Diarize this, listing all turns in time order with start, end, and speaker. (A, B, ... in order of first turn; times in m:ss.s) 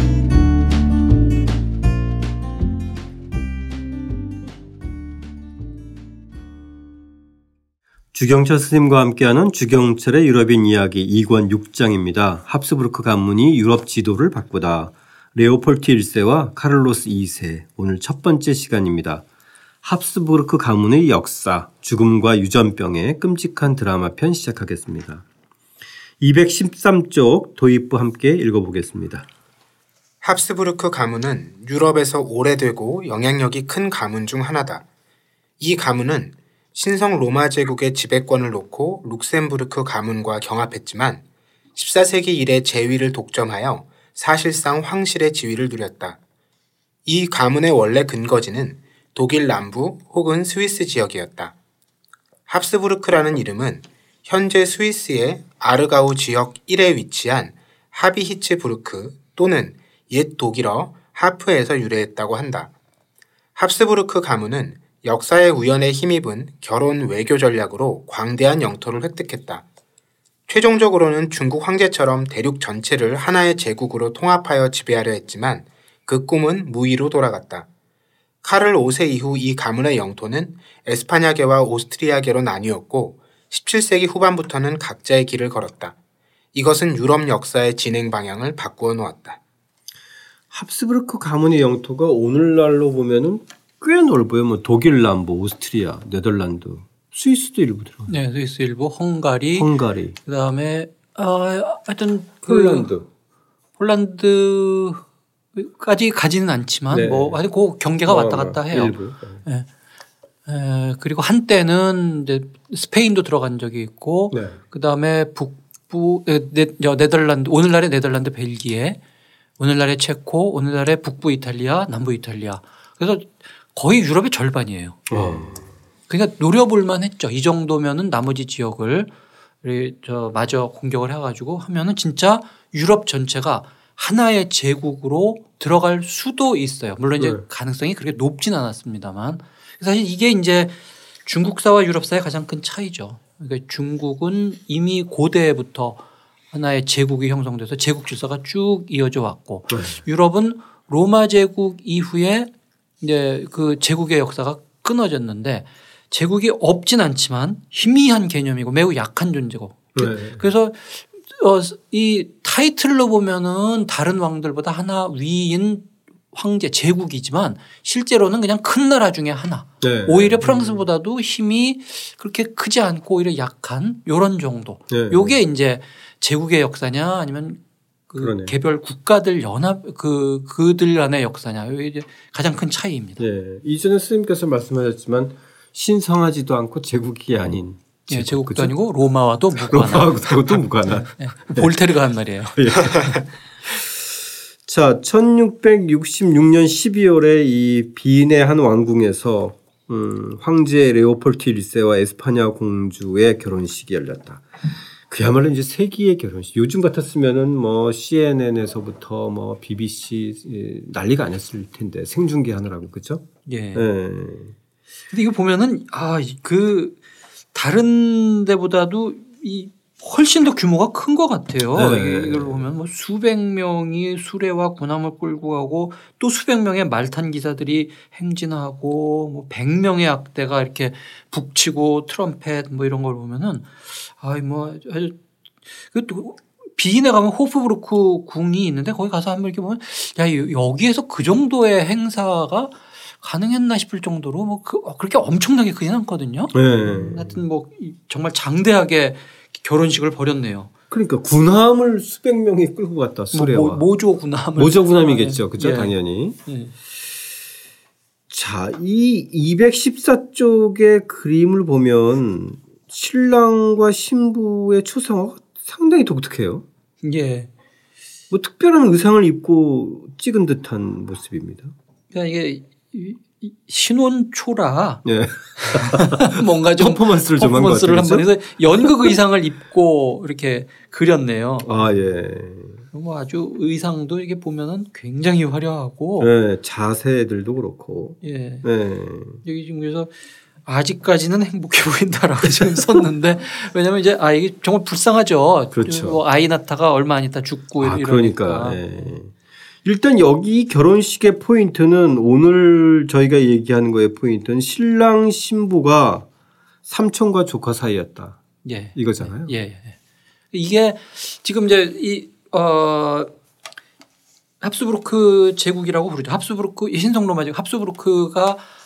0:08.1-0:19.2 A
0:19.8-0:25.2 A
0:26.2-0:29.3 A
0:30.2-0:34.8 B
0:35.6-0:41.2 B
0:41.7-0:46.2 B
0:47.0-0:51.5 B
0:52.5-1:02.7 B
1:03.6-1:09.6 B
1:10.5-1:17.7 B
1:18.4-1:25.9 B
1:26.5-1:29.4 B
1:30.5-1:38.1 A
1:38.1-1:39.7 C
1:39.6-1:40.2 A
1:40.2-1:42.9 C
1:42.4-1:43.1 A
1:43.8-1:45.0 C
1:45.5-1:49.7 C
1:46.9-1:47.4 A
1:48.1-1:49.4 A
1:50.4-1:59.0 C
1:54.3-1:54.6 A
1:59.6-2:05.5 C
2:05.1-2:05.7 A
2:06.1-2:09.1 C
2:09.6-2:26.0 C
2:26.5-2:32.5 C
2:29.7-2:30.0 A
2:33.0-3:03.2 C
2:39.9-2:40.4 A
2:49.8-2:50.8 A
2:54.9-2:55.4 A
2:58.2-2:58.5 A
3:03.2-3:08.7 A
3:08.1-3:13.2 C
3:09.7-3:11.7 A
3:12.6-3:14.1 A
3:14.6-3:34.5 A
3:33.4-3:33.9 C
3:35.1-3:37.0 C
3:37.5-3:55.2 C
3:41.7-3:42.7 A
3:55.8-4:10.7 C
4:06.5-4:07.4 A
4:10.9-4:13.8 A
4:13.3-4:15.9 C
4:14.6-4:16.4 A
4:16.4-4:16.7 C
4:18.3-4:26.6 A
4:27.0-4:27.5 C
4:28.3-4:31.7 A
4:32.1-4:35.0 C
4:35.0-4:38.2 A
4:35.6-4:41.7 C
4:38.8-4:39.1 A
4:41.6-4:42.8 A
4:42.9-4:46.3 C
4:46.2-4:49.4 A
4:48.2-4:48.6 C
4:49.4-4:50.1 C
4:50.6-4:58.8 C
4:55.7-4:56.2 A
4:57.8-5:06.3 A
5:06.8-5:08.4 A
5:08.6-5:10.0 C
5:08.9-5:09.5 A
5:10.5-5:13.3 C
5:14.6-5:18.6 C